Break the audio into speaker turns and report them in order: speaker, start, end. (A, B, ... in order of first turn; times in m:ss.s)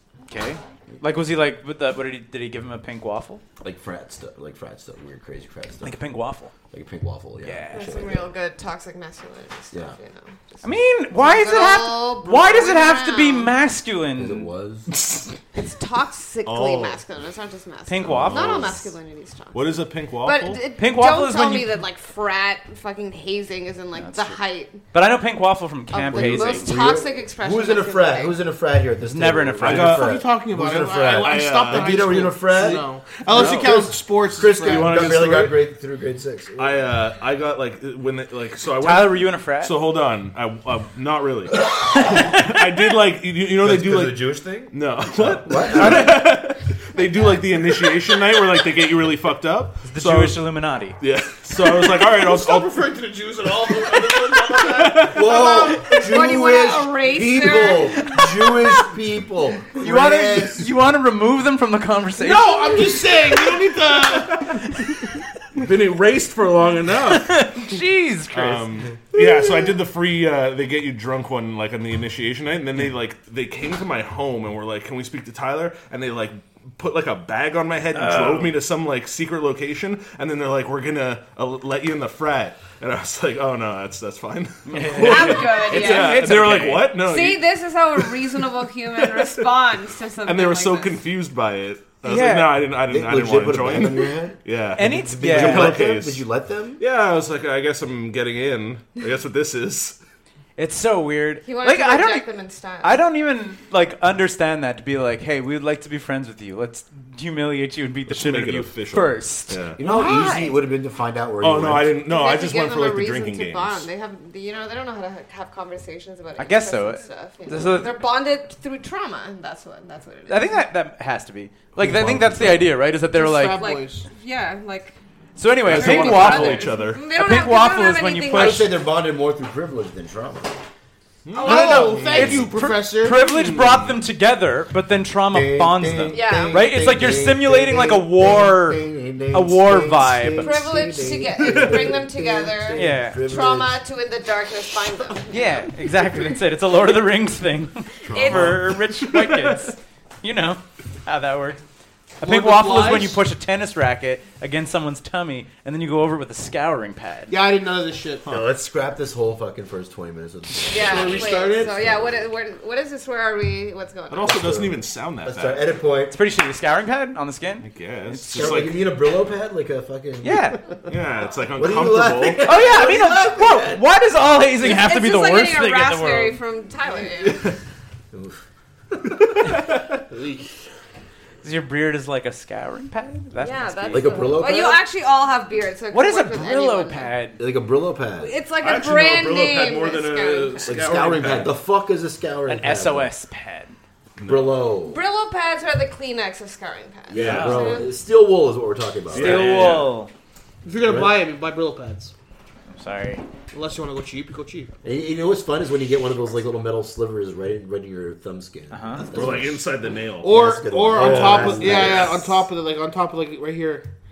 0:00.3-0:03.4 A
0:03.6-0:06.0 B
0:05.8-0:06.5 A
0:06.7-0:08.3 B
0:07.4-0:08.0 A
0:07.7-0:13.5 C
0:10.6-0:14.5 A
0:14.2-0:14.9 B
0:15.5-0:24.8 C
0:16.4-0:17.0 D
0:17.9-0:18.7 A
0:18.0-0:18.9 D
0:19.5-0:20.6 D
0:20.8-0:21.7 A
0:23.9-0:24.4 A
0:24.9-0:26.7 A
0:25.9-0:28.4 C
0:26.1-0:36.9 B
0:29.0-0:30.1 A
0:29.6-0:30.1 D
0:29.7-0:35.2 E
0:31.1-0:32.3 D
0:33.3-0:33.8 D
0:33.4-0:33.6 A
0:34.6-0:35.6 D
0:36.6-0:50.4 D
0:38.8-0:39.7 A
0:42.0-0:42.5 A
0:43.6-0:46.2 B
0:45.7-0:46.3 A
0:49.8-0:51.0 A
0:51.0-0:52.8 D
0:51.8-0:56.0 E
0:54.6-0:55.3 D
0:55.0-1:00.7 B
0:55.4-0:58.2 C
0:59.8-1:02.9 A
1:02.2-1:04.5 E
1:04.8-1:05.0 A
1:05.5-1:07.4 D
1:07.0-1:08.7 A
1:08.3-1:28.1 D
1:17.9-1:18.6 A
1:24.6-1:27.0 A
1:25.0-1:31.0 C
1:29.0-1:29.4 D
1:30.2-1:36.2 D
1:32.0-1:32.7 A
1:32.8-1:36.8 B
1:34.8-1:35.8 A
1:36.8-1:40.0 D
1:40.6-1:42.3 A
1:41.4-1:43.0 C
1:42.8-1:50.5 A
1:48.1-1:49.8 D
1:49.8-1:52.0 B
1:50.0-1:50.4 C
1:51.4-1:53.9 D
1:52.0-2:00.6 C
1:56.4-1:57.9 A
2:00.3-2:03.6 A
2:01.8-2:02.7 B
2:03.1-2:04.1 E
2:03.4-2:05.0 C
2:05.4-2:08.7 A
2:05.6-2:07.0 D
2:05.6-2:08.7 C
2:08.3-2:10.5 B
2:11.2-2:12.4 D
2:11.4-2:12.0 C
2:11.4-2:13.3 E
2:11.4-2:12.5 B
2:11.4-2:20.6 A
2:13.3-2:13.9 D
2:15.3-2:23.8 B
2:16.1-2:16.6 C
2:20.4-2:25.7 C
2:21.4-2:21.8 D
2:22.8-2:23.2 A
2:25.3-2:31.6 A
2:28.1-2:28.6 B
2:28.1-2:28.6 C
2:28.3-2:29.6 D
2:32.2-2:37.3 A
2:32.2-2:33.2 E
2:37.3-2:38.3 E
2:38.3-2:42.3 B
2:40.7-2:44.4 C
2:40.8-2:41.8 E
2:44.1-2:45.6 D
2:44.2-2:46.2 B
2:46.1-2:48.7 A
2:47.6-2:48.8 D
2:48.3-2:50.8 B
2:50.2-2:50.6 A
2:50.9-2:52.6 D
2:51.6-2:53.8 B
2:52.4-2:56.4 A
2:54.6-2:57.5 C
2:58.1-2:59.6 B
3:01.4-3:04.4 A
3:03.4-3:07.1 C
3:03.9-3:04.8 B
3:05.9-3:07.4 A
3:07.4-3:08.3 B
3:08.2-3:10.9 C
3:08.6-3:11.6 D
3:10.7-3:13.1 B
3:12.5-3:13.8 A
3:14.2-3:14.6 D
3:14.2-3:15.0 B
3:14.9-3:17.9 C
3:17.1-3:19.8 B
3:17.1-3:17.6 D
3:17.2-3:17.7 A
3:19.1-3:19.9 D
3:19.1-3:20.1 A
3:20.6-3:22.1 E
3:20.8-3:21.2 B
3:22.7-3:23.2 A
3:23.5-3:24.7 E
3:24.8-3:29.7 B
3:28.7-3:29.0 A
3:29.1-3:30.4 D
3:30.2-3:33.9 E
3:30.2-3:32.3 B
3:30.9-3:32.2 D